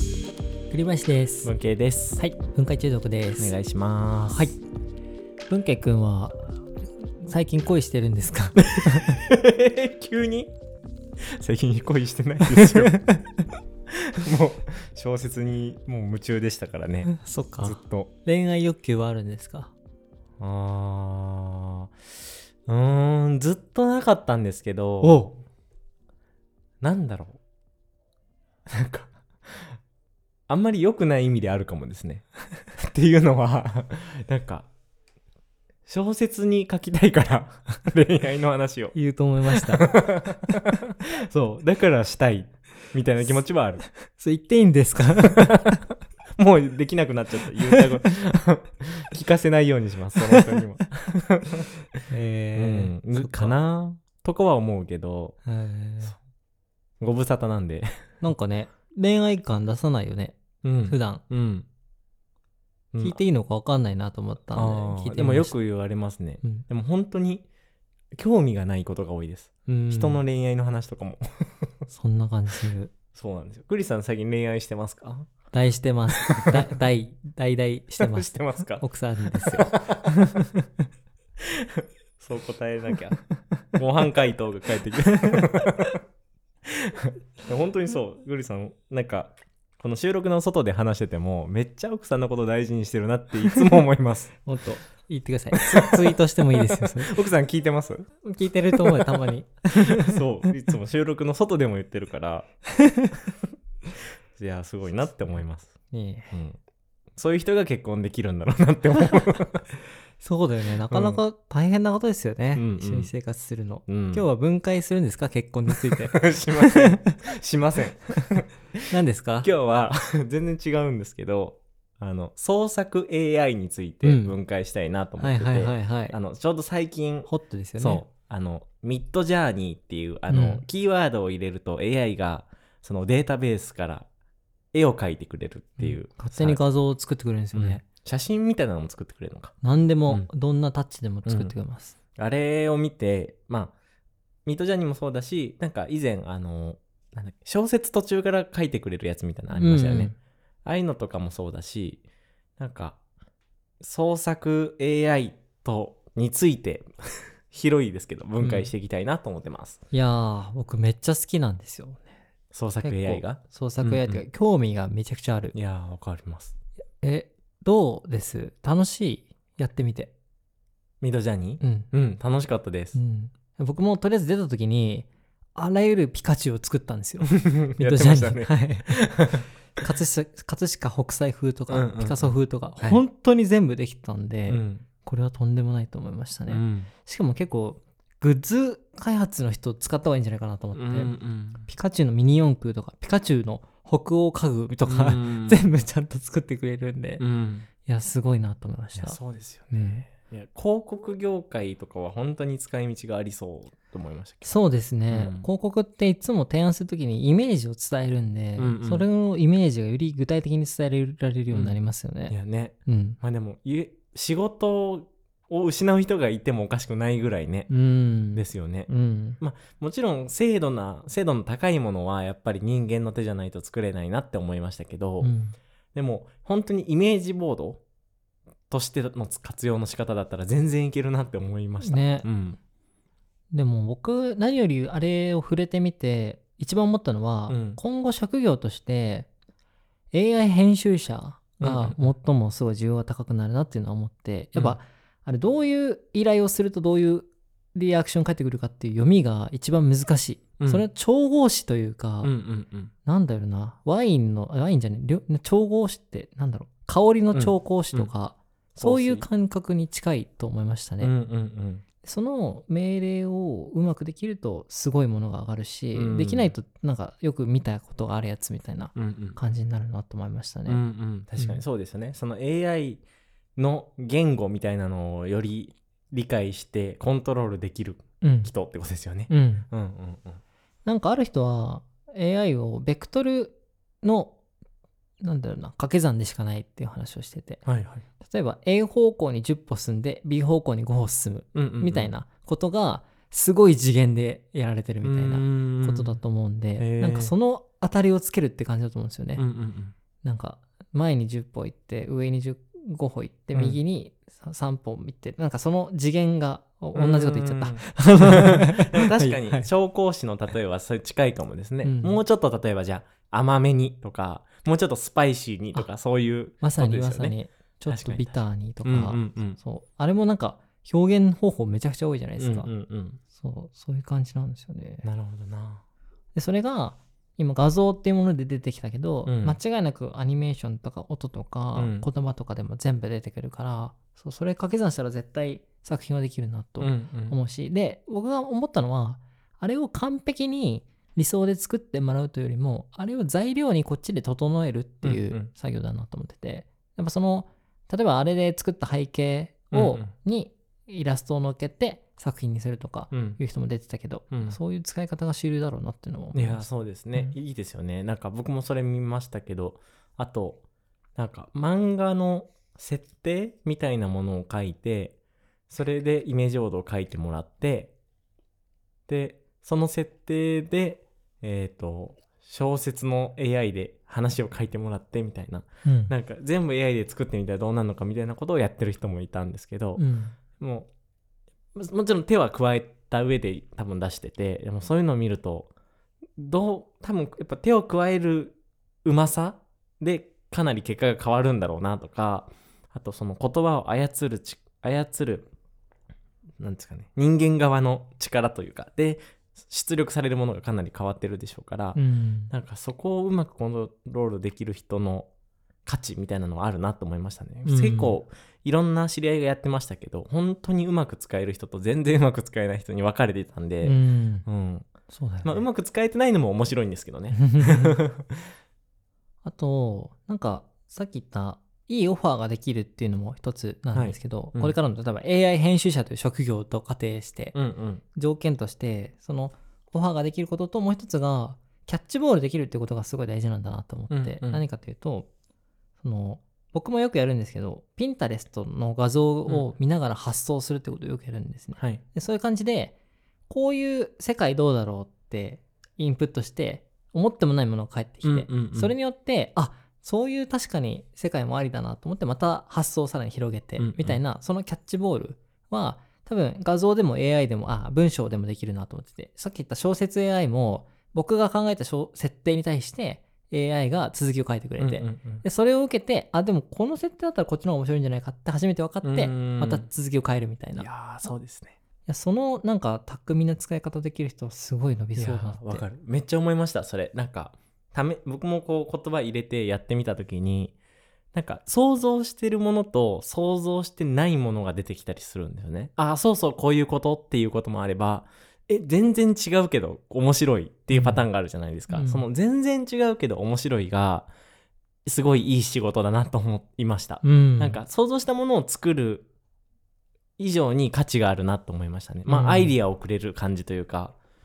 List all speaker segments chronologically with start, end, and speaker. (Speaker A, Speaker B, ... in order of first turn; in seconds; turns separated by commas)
Speaker A: 0.7-1.5, Speaker B: 1.4-2.2, Speaker A: 2.2-3.5, Speaker B: 3.4-4.5, Speaker A: 4.3-4.6, Speaker A: 5.5-6.3, Speaker A: 7.2-9.2, Speaker B: 8.7-10.5, Speaker B: 11.3-13.0, Speaker A: 12.4-13.3, Speaker B: 13.9-17.1, Speaker A: 17.1-19.7, Speaker B: 17.6-18.1, Speaker B: 20.4-21.9, Speaker B: 22.6-25.3, Speaker A: 25.0-25.4, Speaker B: 26.8-27.4, Speaker B: 28.7-29.8, Speaker B: 30.5-34.7, Speaker B: 35.9-39.0, Speaker A: 38.9-40.1, Speaker B: 39.5-43.8, Speaker A: 44.1-45.8, Speaker B: 46.4-51.7, Speaker A: 50.2-50.8, Speaker A: 52.1-53.5, Speaker B: 52.5-55.4, Speaker A: 55.5-56.2, Speaker B: 57.0-58.0, Speaker A: 58.2-61.2, Speaker B: 60.6-61.7, Speaker B: 62.9-63.2, Speaker A: 63.0-65.5, Speaker B: 64.5-67.5, Speaker B: 68.1-71.7, Speaker A: 69.7-70.2, Speaker A: 71.9-72.9, Speaker B: 73.1-75.3, Speaker A: 75.5-80.7, Speaker B: 76.3-76.7, Speaker B: 78.0-80.1, Speaker B: 81.4-83.2, Speaker B: 83.7-86.0, Speaker A: 85.1-85.7, Speaker B: 86.7-94.3, Speaker A: 94.4-97.1, Speaker B: 95.7-98.1, Speaker A: 98.2-100.2, Speaker B: 98.7-99.1, Speaker B: 99.9-102.5, Speaker A: 102.8-103.1, Speaker B: 104.3-105.7, Speaker A: 105.9-106.3, Speaker B: 106.3-106.6, Speaker B: 107.2-109.7, Speaker A: 109.0-109.4, Speaker A: 110.2-117.1, Speaker B: 110.9-111.2, Speaker B: 112.5-113.1, Speaker B: 113.9-114.2, Speaker B: 115.9-118.6, Speaker A: 118.9-119.5, Speaker B: 119.4-134.1, Speaker A: 124.0-124.4, Speaker A: 125.2-126.2, Speaker A: 127.2-128.0, Speaker A: 130.3-130.6, Speaker B: 134.7-136.6, Speaker A: 135.8-137.8, Speaker B: 137.5-139.5, Speaker A: 139.6-141.9, Speaker B: 141.2-141.5, Speaker B: 142.2-143.7, Speaker B: 144.4-150.1, Speaker A: 149.5-150.2, Speaker B: 150.6-152.0, Speaker B: 152.6-153.0, Speaker B: 153.8-159.8, Speaker A: 158.4-158.7, Speaker A: 159.9-162.1, Speaker B: 162.5-164.2, Speaker A: 162.8-165.5, Speaker B: 165.5-166.5, Speaker A: 167.0-170.1, Speaker B: 171.0-173.0, Speaker A: 171.6-171.9, Speaker A: 172.9-179.2, Speaker B: 177.2-179.5, Speaker A: 179.8-197.2, Speaker B: 181.7-183.0, Speaker B: 184.5-184.8, Speaker B: 186.5-186.9, Speaker B: 190.7-191.7, Speaker B: 194.8-195.6, Speaker B: 197.2-197.7, Speaker A: 197.8-199.2, Speaker B: 198.9-204.5, Speaker A: 199.7-200.1, Speaker A: 204.4-212.3, Speaker B: 205.1-205.5, Speaker B: 208.6-209.1, Speaker B: 211.5-211.8, Speaker B: 212.3-217.7, Speaker A: 212.8-213.2, Speaker A: 217.7-219.4, Speaker B: 218.3-225.3, Speaker A: 225.2-225.6, Speaker B: 225.9-227.8, Speaker B: 228.7-232.6, Speaker A: 231.8-232.3, Speaker A: 233.5-239.3, Speaker B: 237.5-237.8, Speaker A: 240.1-252.3, Speaker B: 241.6-242.1, Speaker B: 250.6-250.8, Speaker B: 252.2-252.9, Speaker A: 253.0-261.1, Speaker B: 257.3-258.1, Speaker B: 258.7-259.3, Speaker B: 261.0-261.8, Speaker A: 262.0-270.8, Speaker B: 265.9-266.5, Speaker B: 268.9-269.4, Speaker B: 270.7-273.0, Speaker A: 271.4-271.6, Speaker B: 273.6-280.4, Speaker A: 278.2-278.5, Speaker A: 279.3-279.7, Speaker A: 280.8-284.4, Speaker A: 285.2-287.6, Speaker B: 287.6-288.0, Speaker A: 288.2-299.4, Speaker B: 291.5-292.1, Speaker B: 295.0-296.2, Speaker B: 296.8-297.3, Speaker B: 299.4-299.9, Speaker A: 300.2-309.7, Speaker B: 306.9-317.4, Speaker A: 311.8-312.2, Speaker A: 316.6-322.7, Speaker B: 317.9-319.6, Speaker B: 322.4-323.2, Speaker A: 323.3-325.0, Speaker B: 325.0-325.8, Speaker A: 326.3-357.3, Speaker B: 329.2-329.6, Speaker B: 331.7-332.1, Speaker B: 336.8-337.4, Speaker B: 345.0-345.5, Speaker B: 349.7-350.1, Speaker B: 353.1-353.4, Speaker B: 354.3-354.6, Speaker B: 356.3-360.6, Speaker B: 361.1-365.1, Speaker B: 365.7-367.9, Speaker B: 369.1-380.0, Speaker A: 375.8-376.1, Speaker A: 379.9-380.4, Speaker B: 380.6-380.9, Speaker B: 381.7-385.7, Speaker B: 386.4-395.5, Speaker B: 396.6-402.0, Speaker A: 401.9-402.5, Speaker B: 402.5-405.3, Speaker B: 405.9-414.9, Speaker A: 407.6-408.2, Speaker A: 413.8-414.4, Speaker A: 415.1-415.6, Speaker B: 415.4-418.5, Speaker A: 417.3-418.0, Speaker A: 419.4-427.6, Speaker B: 423.9-424.7, Speaker B: 427.5-428.0, Speaker A: 428.1-435.3, Speaker B: 434.1-434.6, Speaker A: 436.0-442.9, Speaker B: 441.8-442.0, Speaker A: 443.5-470.9, Speaker B: 448.2-448.9, Speaker B: 453.8-454.2, Speaker B: 464.8-465.4, Speaker B: 469.0-469.9, Speaker B: 470.8-471.8, Speaker A: 472.1-475.8, Speaker B: 475.2-480.7, Speaker B: 481.3-494.3, Speaker A: 490.9-491.2, Speaker A: 491.9-492.2, Speaker B: 495.0-499.2, Speaker A: 497.2-497.8, Speaker B: 500.4-504.1, Speaker A: 502.3-502.7